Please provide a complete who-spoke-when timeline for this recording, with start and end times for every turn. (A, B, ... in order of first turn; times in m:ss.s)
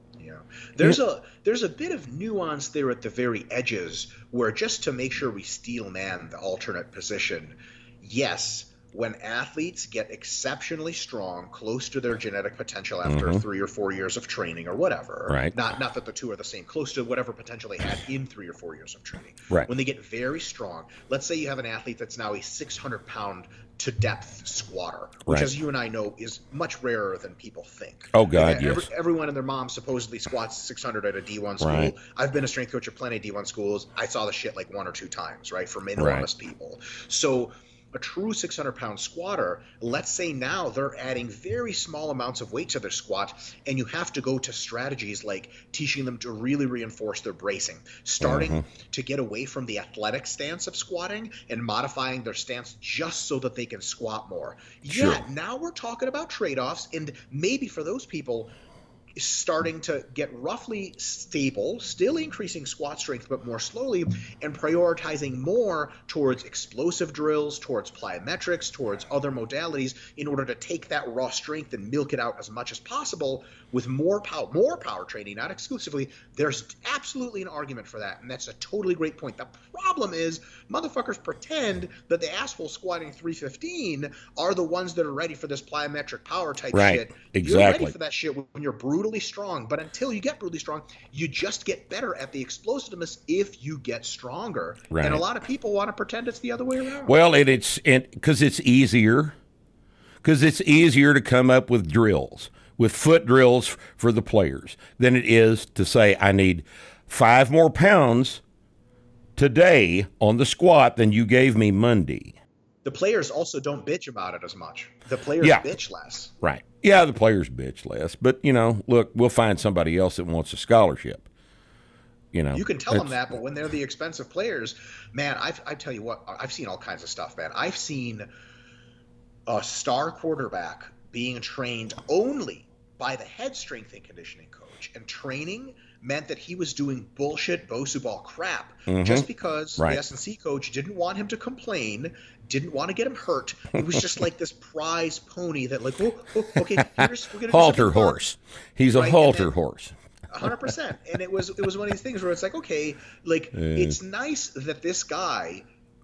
0:00.2-0:58.5 A
0:13.0-0:13.4 B
0:15.3-0:15.5 B
0:28.1-0:28.9 B
0:31.6-0:31.9 B
0:36.0-0:36.2 B
0:48.2-0:48.6 B
0:54.9-0:55.2 B
0:59.2-1:37.1 A
1:26.7-1:27.9 B
1:34.9-1:35.2 B
1:37.0-1:39.4 B
1:40.2-1:48.4 B
1:49.4-1:52.4 B
1:52.8-1:56.3 A
1:56.4-2:01.3 B
2:02.3-2:03.2 B
2:02.5-2:08.3 A
2:09.5-2:28.2 A
2:18.9-2:19.2 B
2:26.8-2:29.9 B
2:28.9-2:29.5 A
2:30.3-2:35.6 A
2:33.6-2:34.0 B